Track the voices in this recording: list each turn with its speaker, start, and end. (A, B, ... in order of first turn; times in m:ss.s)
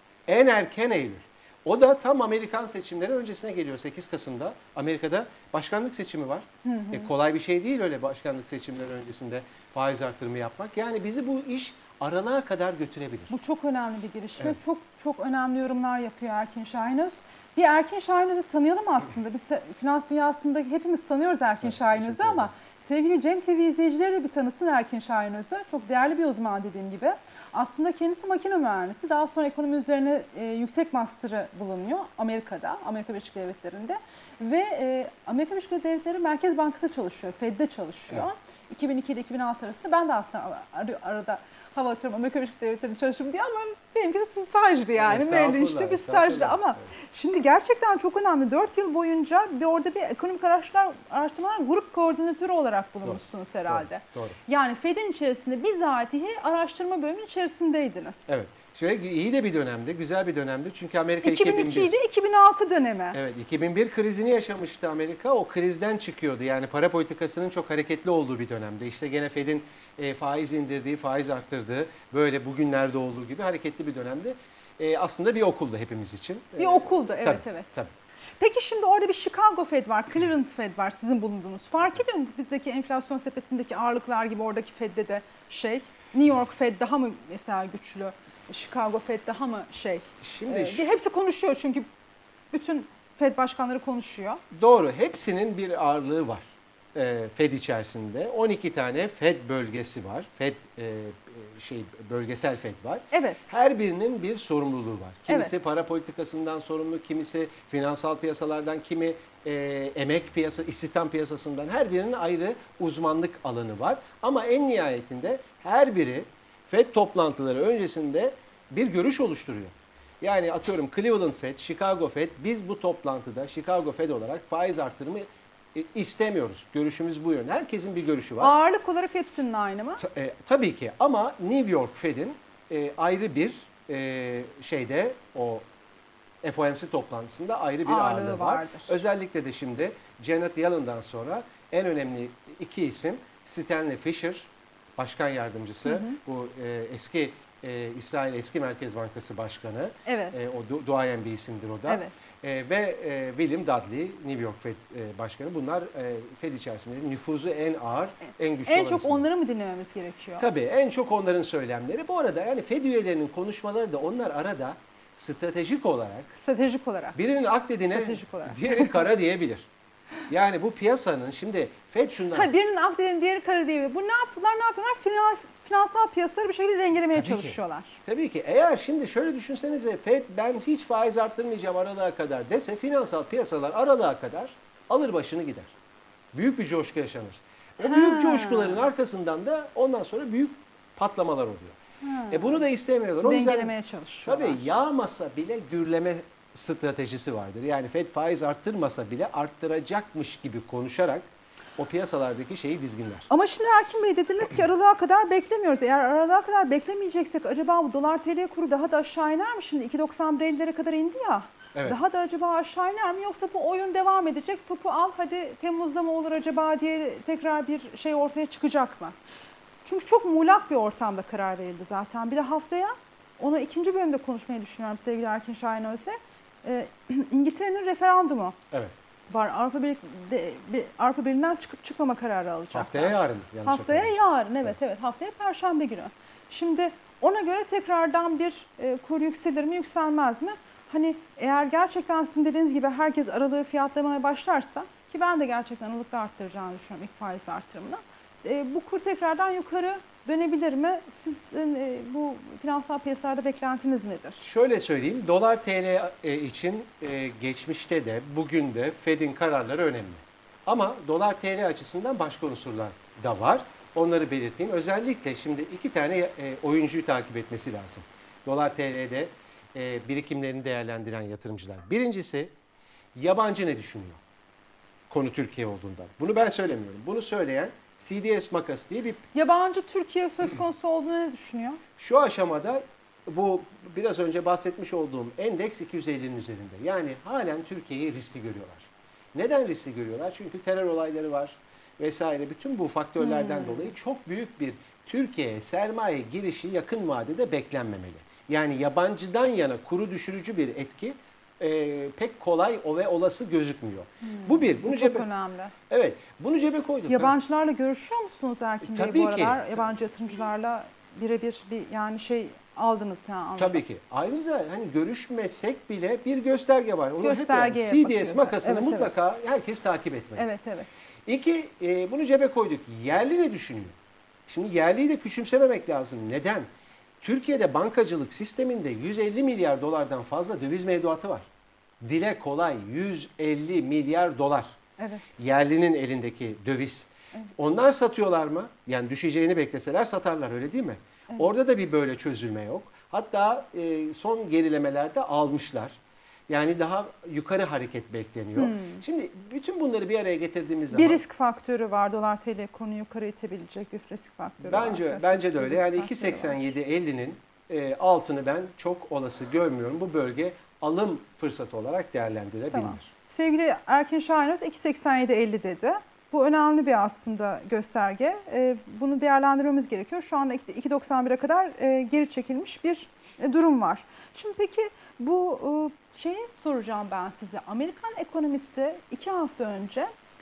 0:00.3-0:13.3 A
0:06.6-0:07.1 B
0:13.3-0:58.3 B
0:21.6-0:22.5 A
0:45.0-0:46.8 A
0:53.7-0:54.4 A
0:58.3-1:01.9 A
1:01.2-1:03.2 B
1:03.1-1:17.9 A
1:16.6-1:17.8 B
1:18.4-1:31.8 B
1:30.2-1:30.9 A
1:32.5-1:34.4 B
1:34.5-2:08.5 A
1:43.1-1:43.5 B
1:45.3-1:45.6 B
2:08.4-2:10.0 B
2:10.0-2:15.6 A
2:16.4-2:39.2 A
2:17.8-2:18.9 B
2:25.8-2:26.2 B
2:30.0-2:30.5 B
2:31.9-2:32.1 B
2:38.6-2:40.4 B
2:40.4-2:46.3 A
2:46.3-2:47.2 B
2:47.1-2:49.7 A
2:47.8-2:49.0 B
2:50.3-2:52.5 A
2:52.3-2:58.0 B
2:57.1-3:05.7 A
3:06.3-3:11.8 A
3:07.8-3:08.8 B
3:12.0-3:12.6 B
3:12.3-3:21.2 A
3:13.2-3:14.7 B
3:21.8-3:23.3 A
3:23.3-3:39.1 B
3:39.8-3:48.6 B
3:48.7-3:49.0 A
3:49.3-4:14.4 B
3:52.7-3:54.7 A
4:14.4-4:32.5 A
4:33.1-4:34.2 A
4:35.1-4:39.3 A
4:39.3-4:41.8 B
4:42.0-5:05.3 A
4:53.2-4:53.9 B
5:04.2-5:05.7 B
5:05.9-5:07.3 A
5:07.1-5:13.8 B
5:08.8-5:09.9 A
5:13.6-5:20.4 A
5:17.2-5:19.1 B
5:20.4-5:21.0 B
5:21.2-5:23.9 A
5:24.5-5:26.6 A
5:27.2-5:31.4 A
5:32.0-5:34.8 A
5:35.0-5:35.4 B
5:35.4-5:51.2 A
5:48.6-5:49.0 B
5:50.9-5:56.6 B
5:54.6-6:03.1 A
6:02.7-6:20.1 B